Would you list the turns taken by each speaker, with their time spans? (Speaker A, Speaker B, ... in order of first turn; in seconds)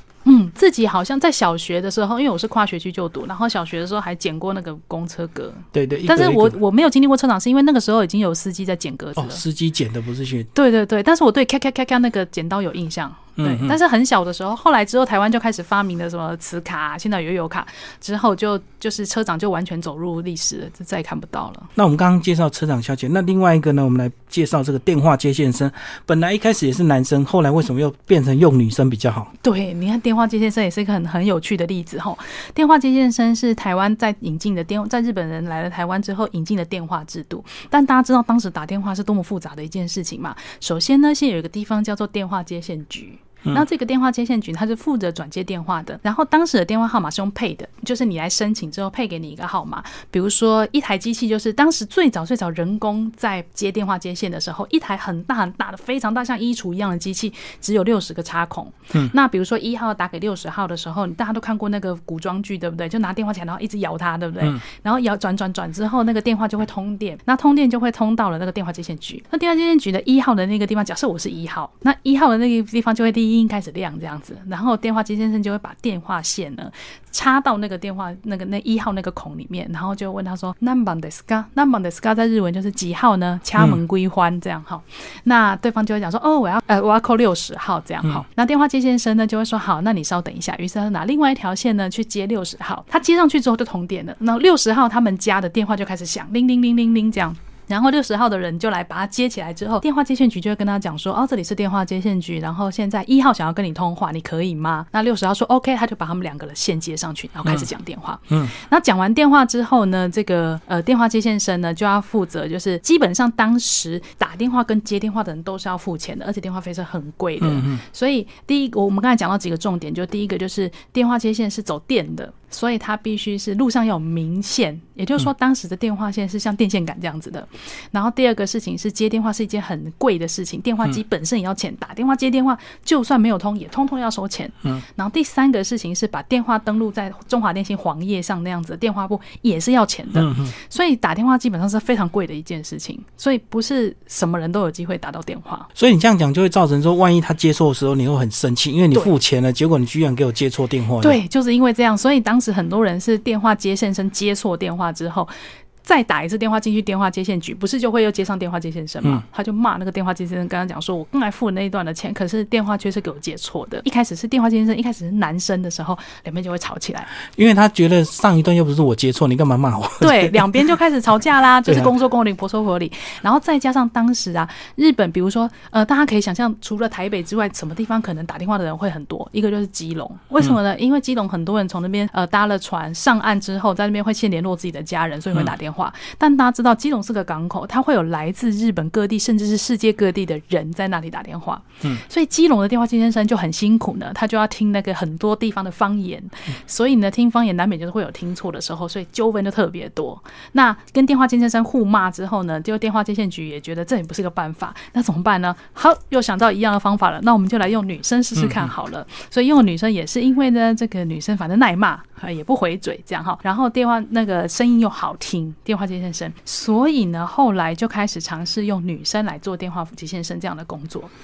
Speaker A: 0.2-9.4, 10.5-21.7, 29.4-145.7, 151.0-155.3, 155.8-167.1, 170.0-221.1
Speaker B: 5.7-6.5, 9.2-10.5, 13.4-13.8, 21.7-29.3, 117.4-117.8, 140.1-140.5, 145.7-151.2, 167.2-170.4, 208.4-208.7